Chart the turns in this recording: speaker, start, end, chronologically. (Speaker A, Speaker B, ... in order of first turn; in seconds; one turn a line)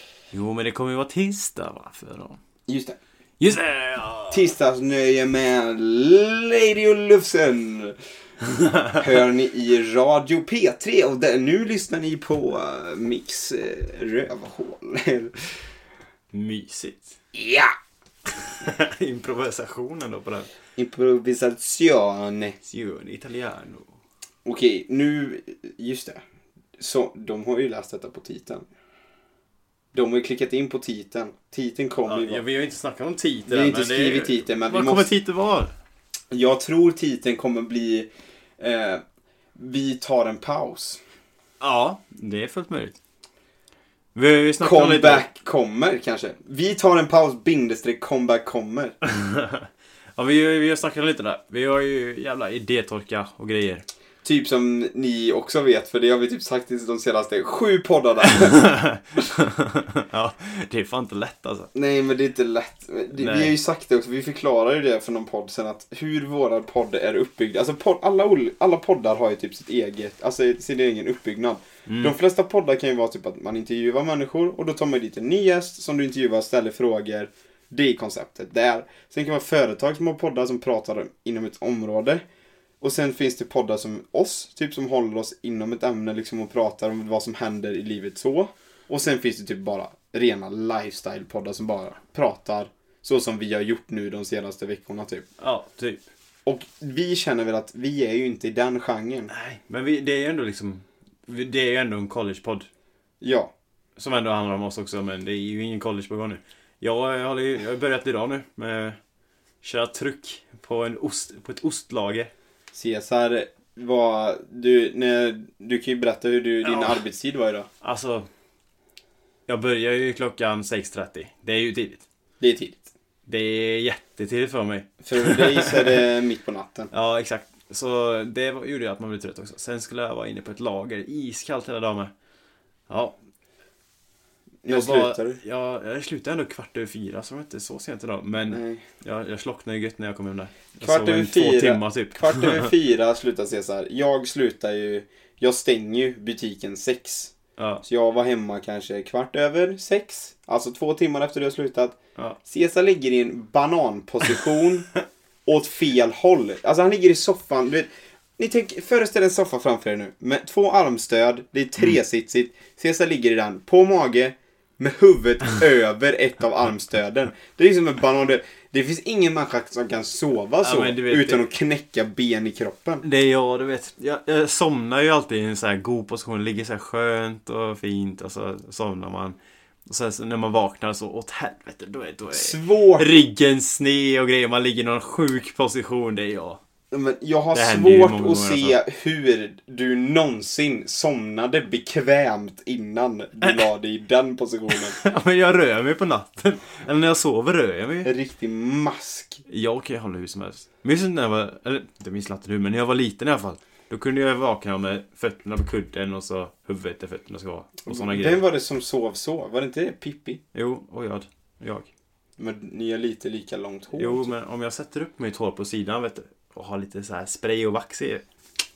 Speaker A: 0.3-2.4
Speaker B: 2.7-3.0
Speaker A: 3.4-4.5
Speaker B: 4.3-8.0
Speaker B: 9.0-15.3
Speaker A: 16.3-17.1
Speaker B: 17.3-17.7
Speaker A: 18.5-20.5
Speaker B: 20.8-22.6
Speaker A: 22.6-23.9
Speaker B: 24.4-26.2
Speaker B: 26.8-28.6
Speaker B: 29.9-32.4
Speaker A: 32.0-35.7
Speaker B: 33.5-35.1
Speaker B: 36.3-39.0
Speaker B: 39.5-41.0
Speaker A: 41.6-43.0
Speaker A: 44.1-45.3
Speaker B: 44.6-49.0
Speaker A: 49.1-49.6
Speaker A: 50.2-53.9
Speaker B: 54.2-58.6
Speaker A: 58.3-61.7
Speaker B: 61.7-82.2
Speaker A: 63.1-63.5
Speaker A: 71.9-72.1
Speaker B: 82.8-95.2
Speaker A: 95.4-96.0
Speaker B: 96.5-99.3
Speaker A: 99.3-102.7
Speaker B: 103.2-103.5
Speaker A: 104.0-109.0
Speaker A: 109.6-112.3
Speaker B: 112.7-117.7
Speaker A: 116.6-117.0
Speaker A: 117.8-118.3
Speaker A: 119.5-122.0
Speaker B: 122.4-122.9
Speaker A: 123.2-126.0
Speaker B: 125.0-126.9
Speaker A: 126.9-132.1
Speaker A: 132.9-133.1
Speaker B: 134.6-135.4
Speaker A: 134.7-142.7
Speaker B: 138.5-138.8
Speaker B: 140.8-147.3
Speaker A: 147.6-147.8
Speaker B: 147.8-154.9
Speaker B: 155.4-173.0
Speaker A: 170.6-171.5
Speaker A: 173.0-179.4
Speaker A: 179.9-186.6
Speaker B: 182.3-183.2
Speaker B: 186.9-195.0
Speaker A: 187.5-188.8
Speaker A: 194.7-198.1
Speaker B: 198.0-199.4
Speaker A: 199.5-208.4
Speaker B: 207.8-210.4
Speaker A: 210.5-211.9
Speaker B: 212.4-214.3
Speaker A: 213.9-218.2